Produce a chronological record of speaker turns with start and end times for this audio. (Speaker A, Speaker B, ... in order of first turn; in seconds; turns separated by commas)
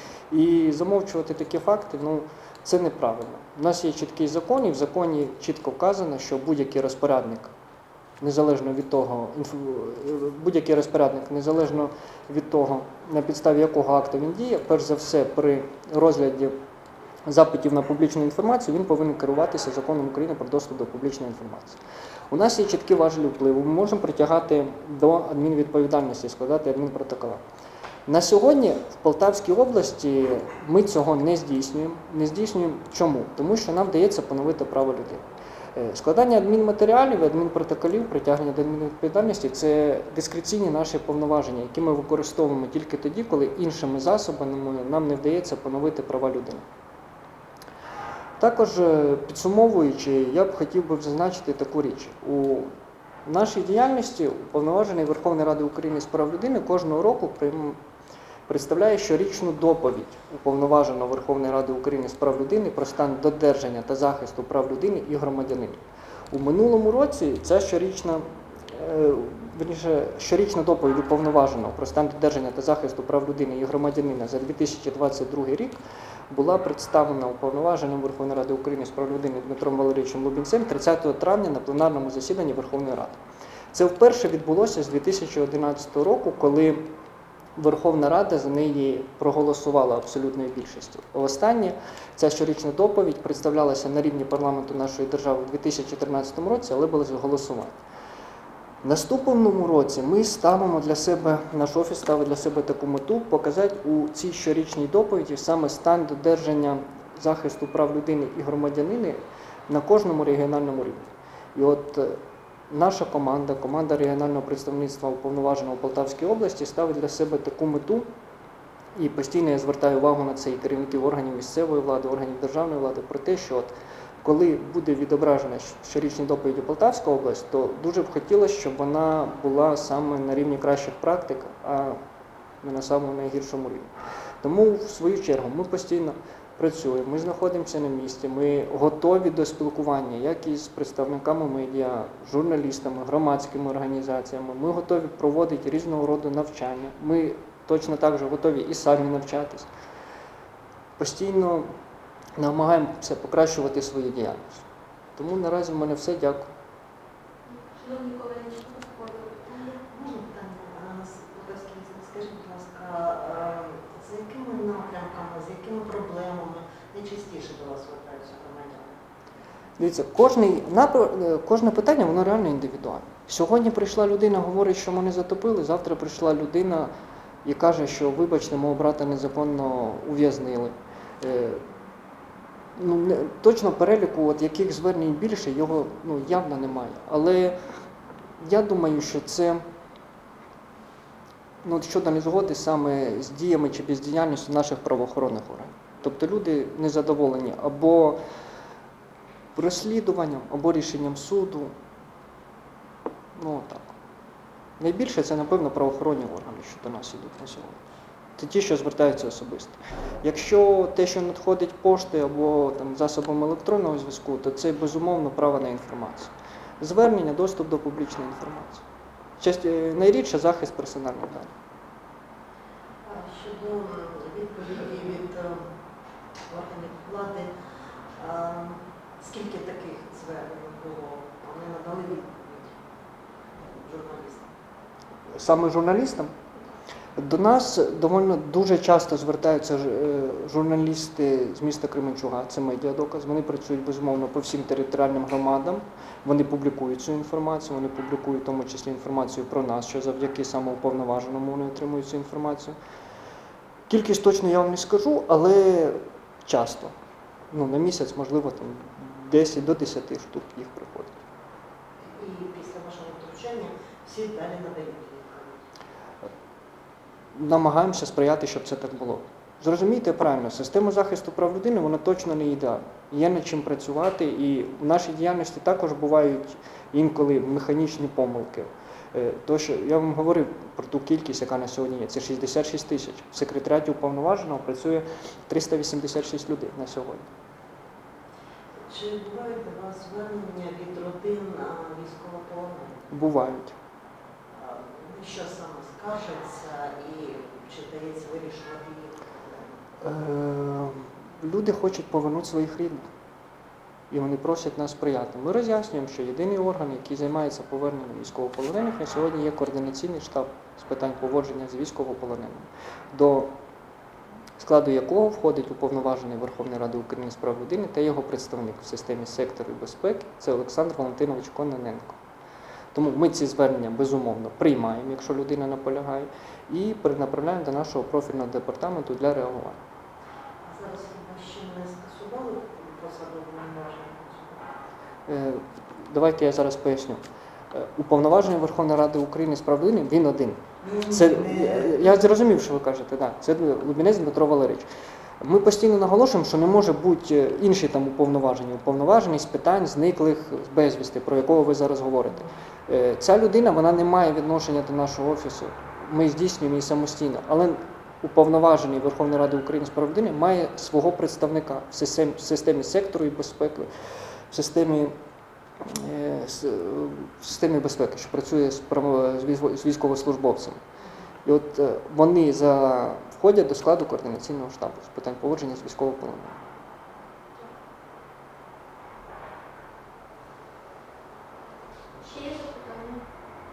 Speaker A: 0.3-7.5, Speaker A: 8.2-16.5, Speaker A: 17.2-21.8, Speaker A: 22.3-27.4, Speaker A: 28.1-35.2, Speaker A: 35.7-46.6, Speaker A: 48.4-52.7, Speaker A: 53.2-57.8, Speaker A: 58.5-75.8, Speaker A: 76.3-83.2, Speaker A: 83.7-86.9, Speaker A: 87.5-97.8, Speaker A: 98.8-112.2, Speaker A: 112.7-118.1, Speaker A: 118.9-132.0, Speaker A: 132.6-133.9, Speaker A: 134.4-149.7, Speaker A: 151.0-151.7, Speaker A: 152.4-154.6, Speaker A: 155.2-156.5, Speaker B: 157.6-159.8, Speaker C: 159.9-169.0, Speaker A: 169.8-176.9, Speaker A: 177.4-181.6, Speaker A: 182.8-187.6, Speaker A: 188.4-189.6, Speaker A: 191.6-198.2, Speaker A: 199.5-201.7, Speaker A: 203.3-203.9, Speaker A: 204.8-207.8, Speaker A: 208.4-218.8, Speaker A: 219.4-221.5, Speaker C: 223.0-225.6, Speaker C: 226.5-227.5, Speaker C: 228.2-232.8, Speaker C: 233.8-234.5, Speaker A: 235.4-236.3, Speaker A: 237.2-252.8, Speaker A: 253.9-256.9, Speaker A: 257.5-261.2, Speaker C: 262.1-265.6, Speaker A: 267.3-287.3, Speaker C: 288.9-293.1, Speaker A: 293.1-293.8, Speaker C: 294.5-299.6, Speaker A: 300.0-303.1, Speaker A: 304.1-313.5, Speaker A: 314.6-322.2, Speaker A: 322.9-329.8, Speaker C: 330.6-334.7, Speaker A: 335.3-337.2, Speaker A: 337.7-344.9, Speaker C: 340.8-342.3, Speaker A: 345.4-363.9, Speaker A: 364.5-365.1, Speaker A: 365.8-370.8, Speaker A: 371.4-376.6, Speaker B: 382.2-383.2